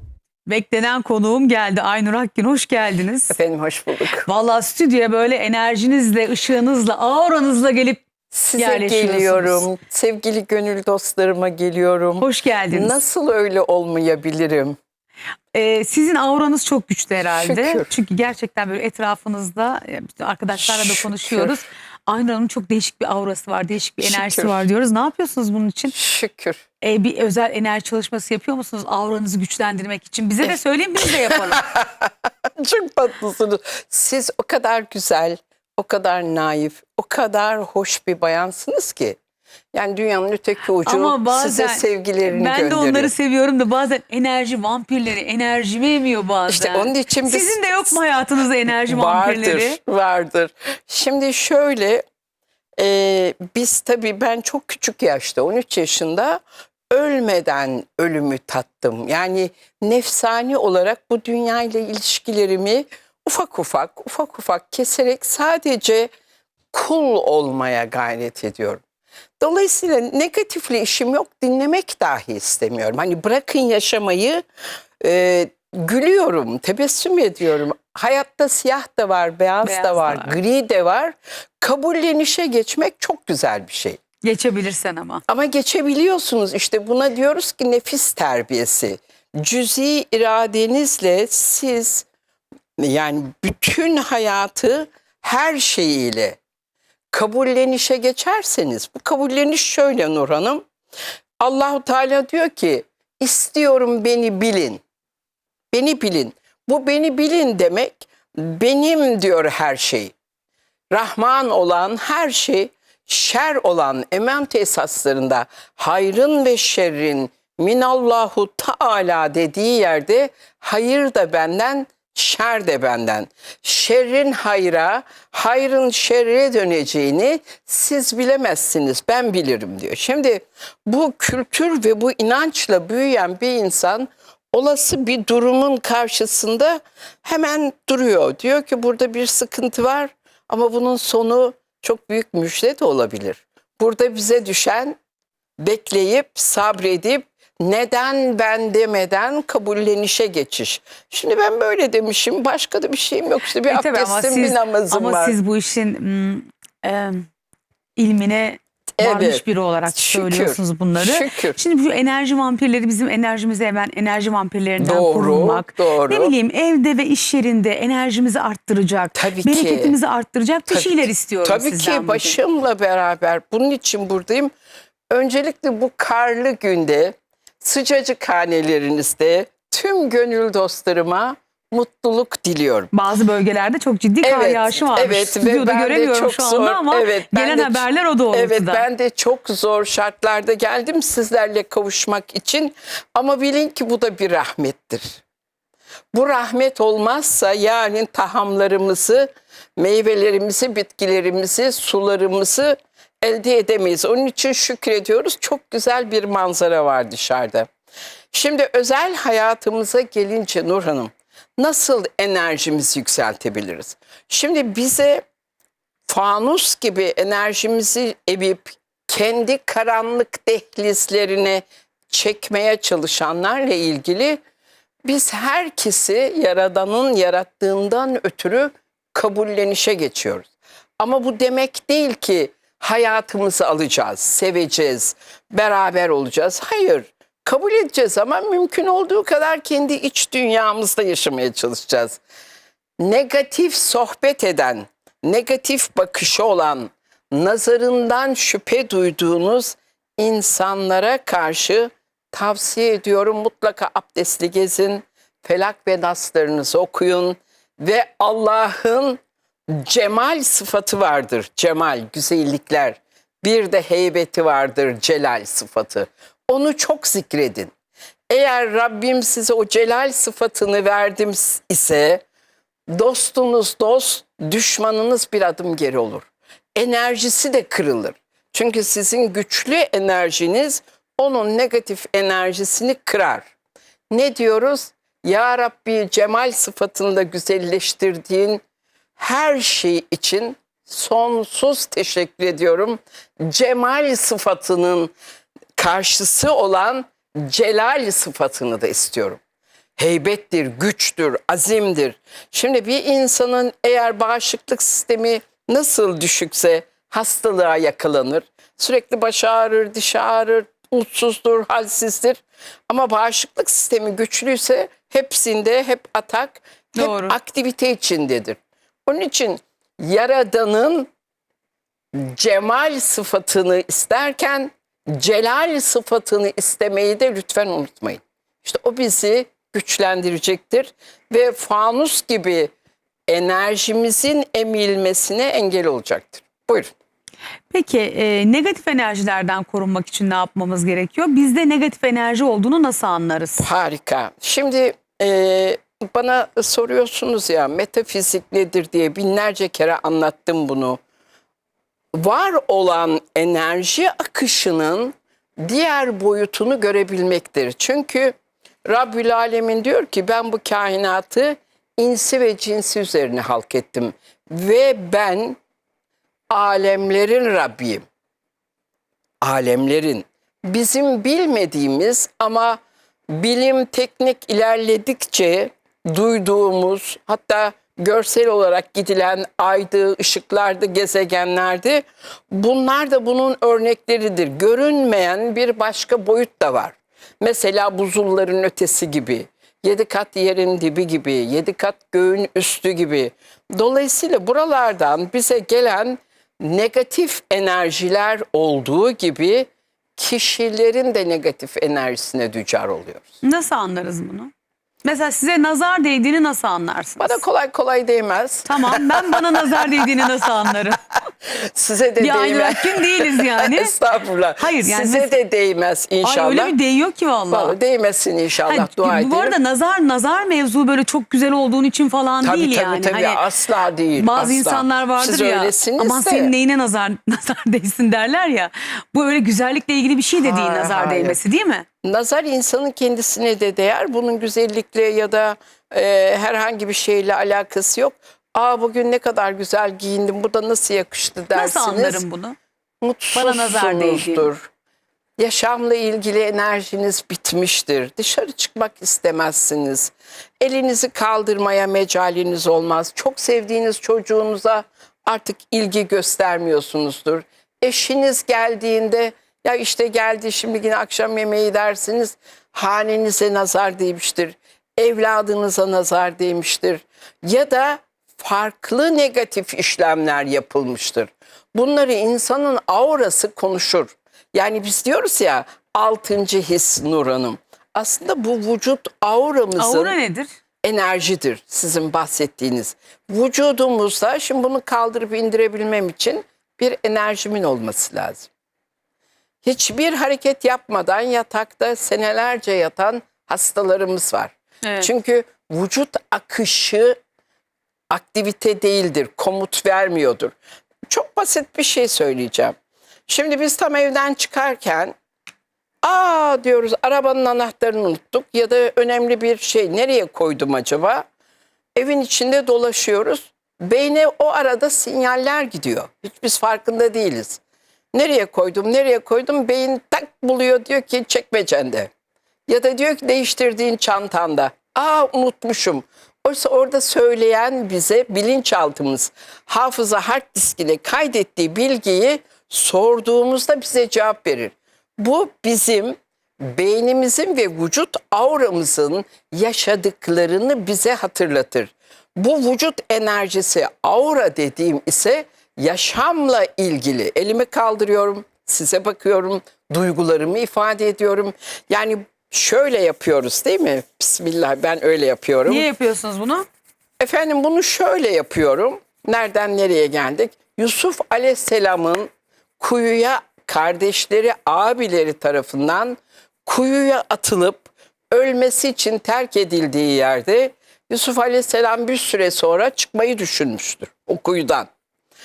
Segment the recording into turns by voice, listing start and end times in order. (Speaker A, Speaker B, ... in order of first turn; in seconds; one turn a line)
Speaker A: 0.5-3.4
Speaker B: 3.3-4.3
Speaker A: 4.2-9.7
Speaker B: 8.3-14.8
Speaker A: 12.2-13.0
Speaker A: 15.5-25.9
Speaker B: 17.2-17.9
Speaker B: 20.5-21.6
Speaker B: 24.0-24.6
Speaker B: 25.9-26.6
Speaker A: 26.8-31.7
Speaker B: 30.5-39.2
Speaker B: 39.7-43.1
Speaker A: 40.7-49.8
Speaker B: 46.5-48.0
Speaker B: 48.6-52.0
Speaker B: 52.8-66.1
Speaker B: 66.7-68.8
Speaker B: 69.4-74.4
Speaker B: 75.0-84.0
Speaker A: 79.6-80.4
Speaker A: 84.2-85.2
Speaker B: 85.3-92.0
Speaker B: 92.8-96.4
Speaker B: 97.1-100.7
Speaker B: 101.4-104.8
Speaker B: 105.7-110.1
Speaker B: 110.9-145.0
Speaker B: 145.6-155.4
Speaker A: 153.5-157.2
Speaker A: 157.9-172.4
Speaker B: 159.0-161.6
Speaker B: 164.8-166.3
Speaker B: 169.1-170.0
Speaker B: 170.7-174.5
Speaker B: 175.1-182.9
Speaker A: 182.9-188.9
Speaker B: 184.2-195.2
Speaker B: 196.1-207.7
Speaker B: 208.3-215.2
Speaker B: 216.1-224.4
Speaker B: 225.1-242.2
Speaker B: 243.0-259.2
Speaker B: 259.7-267.7
Speaker B: 268.3-272.2
Speaker B: 272.9-283.5
Speaker B: 284.1-288.6
Speaker B: 289.1-295.1
Speaker B: 295.8-299.4
Speaker B: 300.0-321.1
Speaker A: 316.9-317.4
Speaker B: 322.1-332.7
Speaker B: 333.3-336.9
Speaker A: 337.7-343.7
Speaker B: 343.6-351.0
Speaker B: 352.1-358.3
Speaker B: 358.9-365.6
Speaker B: 366.5-368.0
Speaker B: 369.4-372.8
Speaker B: 373.3-403.3
Speaker A: 403.4-404.5
Speaker A: 405.0-407.4
Speaker B: 407.2-409.9
Speaker A: 408.6-411.1
Speaker B: 411.7-416.8
Speaker A: 412.2-413.9
Speaker A: 414.6-415.4
Speaker A: 416.2-417.8
Speaker B: 417.5-419.6
Speaker A: 418.6-423.4
Speaker B: 422.4-426.5
Speaker A: 424.1-431.8
Speaker B: 430.4-431.4
Speaker B: 432.0-442.2
Speaker A: 441.5-442.6
Speaker B: 443.0-444.7
Speaker A: 443.3-444.5
Speaker B: 445.4-480.2
Speaker A: 479.8-480.5
Speaker B: 480.8-488.5
Speaker B: 489.6-497.1
Speaker A: 494.8-495.1
Speaker B: 498.1-500.5
Speaker B: 501.1-502.7
Speaker B: 503.3-505.1
Speaker B: 506.0-511.2
Speaker B: 511.9-517.6
Speaker B: 518.1-522.1
Speaker B: 522.7-555.9
Speaker A: 555.6-556.6
Speaker B: 557.2-562.3
Speaker B: 562.8-574.9